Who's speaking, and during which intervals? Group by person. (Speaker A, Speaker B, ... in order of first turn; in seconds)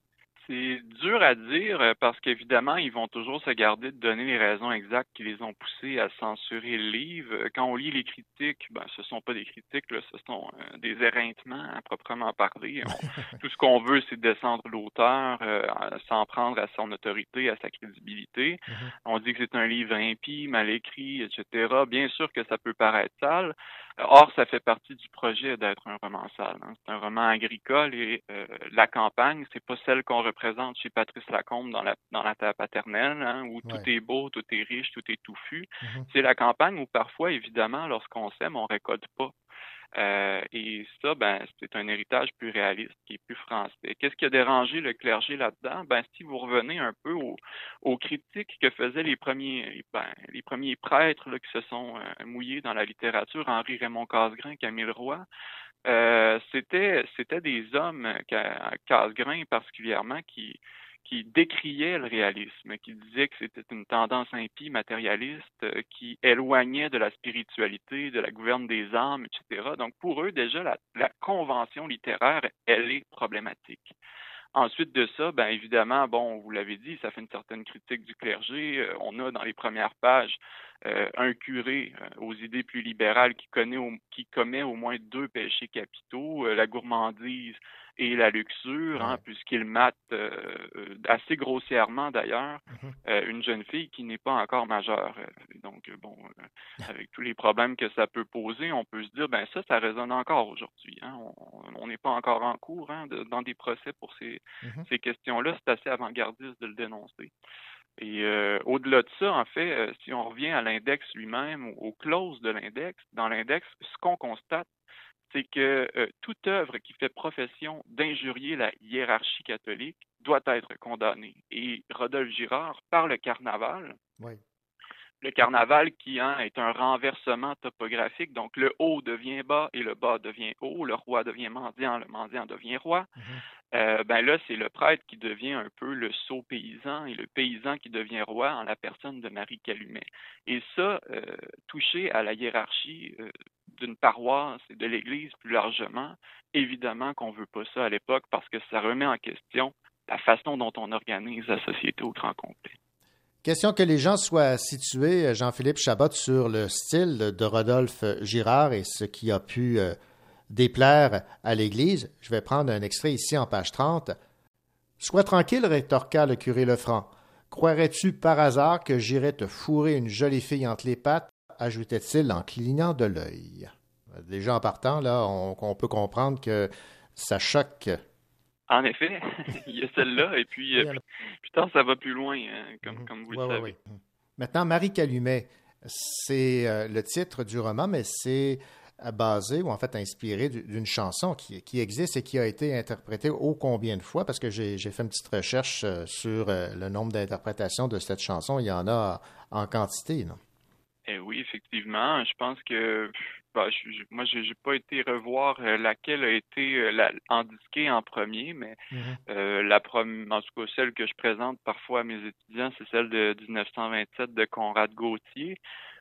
Speaker A: 0.4-39.3, 40.0-55.3, 55.9-73.9, 74.5-96.3, 96.9-107.3, 108.0-114.7, 115.3-124.0, 125.2-133.1, 133.7-152.7, 178.7-183.8, 201.1-208.8, 209.3-215.6
Speaker B: 89.0-89.2, 92.7-93.0, 153.4-160.0, 160.5-164.2, 165.0-178.0, 182.9-200.4, 208.9-209.2